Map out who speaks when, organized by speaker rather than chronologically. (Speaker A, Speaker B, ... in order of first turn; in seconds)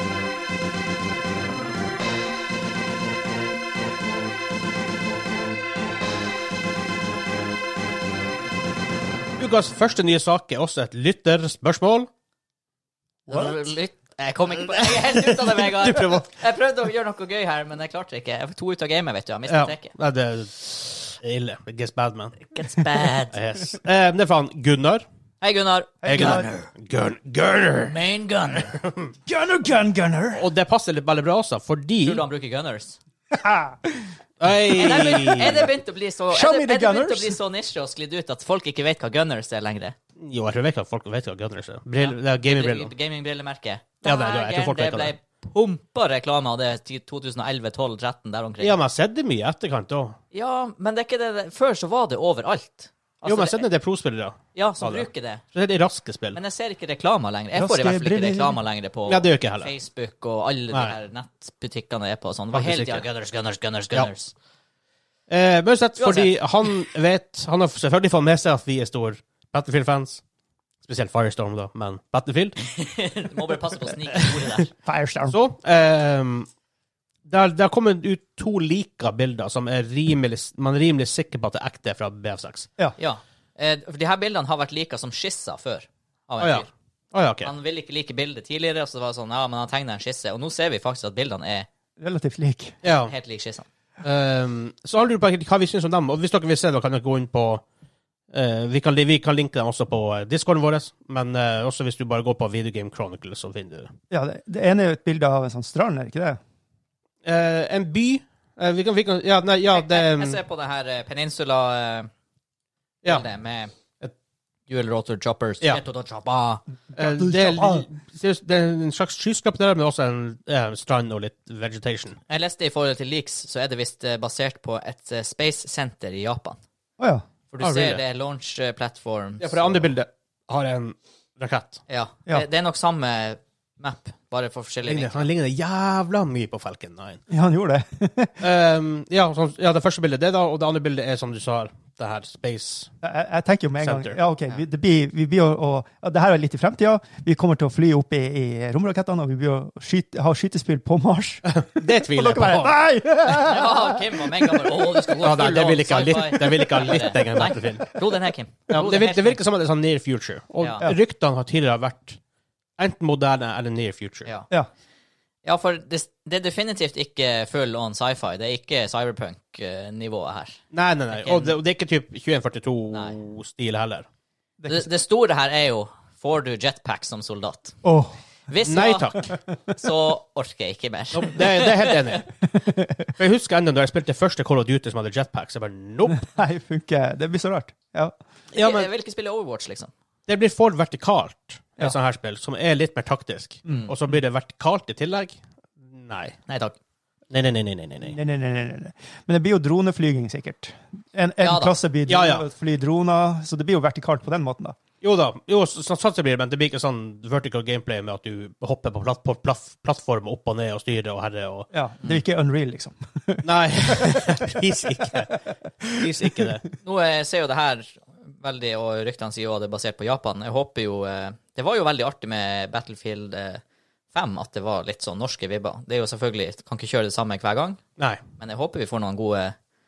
Speaker A: 9.4-12.1, 14.6-16.3, 19.5-22.4, 23.3-25.0, 26.1-28.0, 28.7-29.1, 30.3-32.2, 34.4-35.7, 40.2-42.9, 44.0-45.1, 48.6-50.2, 53.2-56.4, 59.1-59.7, 62.5-63.0, 65.3-70.2, 70.8-72.6, 75.3-76.5, 77.2-82.7, 86.4-87.5, 92.8-93.1, 94.0-97.6, 98.3-103.9, 107.2-110.4, 116.9-122.2, 127.6-128.0, 129.4-131.8, 134.8-137.2, 138.4-142.9, 143.8-144.2, 151.4-152.7, 155.2-157.9, 158.7-162.2, 162.8-164.3, 170.7-174.1, 178.6-179.3, 181.1-182.3, 183.2-186.2, 188.5-188.9, 190.3-196.4, 197.3-198.2, 202.1-202.4, 205.0-211.7, 213.4-215.3, 215.9-216.6
Speaker B: 13.3-19.9, 22.5-23.4, 25.4-26.7, 27.8-28.8, 32.0-33.0, 34.7-39.9, 42.0-48.8, 50.3-53.6, 54.5-55.4, 56.3-64.3, 66.0-66.7, 72.6-74.7, 83.0-86.7, 87.4-91.7, 92.8-93.7, 109.7-112.1, 113.0-113.7, 114.7-116.6, 122.3-126.6, 127.5-129.9, 131.9-135.3, 153.3-159.4, 160.6-160.8, 165.4-171.5, 174.7-177.8, 178.5-182.2, 188.5-189.9, 196.5-196.8, 201.4-201.7, 216.8-223.6, 224.1-227.8, 228.4-229.5
Speaker C: 26.0-26.5, 29.2-30.4, 33.3-34.1, 36.3-37.4, 57.5-58.6, 74.8-75.3, 92.0-92.8, 104.1-106.4, 116.9-117.8, 127.0-127.2, 137.3-138.4, 143.0-154.9, 174.6-174.9, 177.8-178.1, 182.5-183.1, 186.1-188.1, 198.0-204.8, 211.7-214.6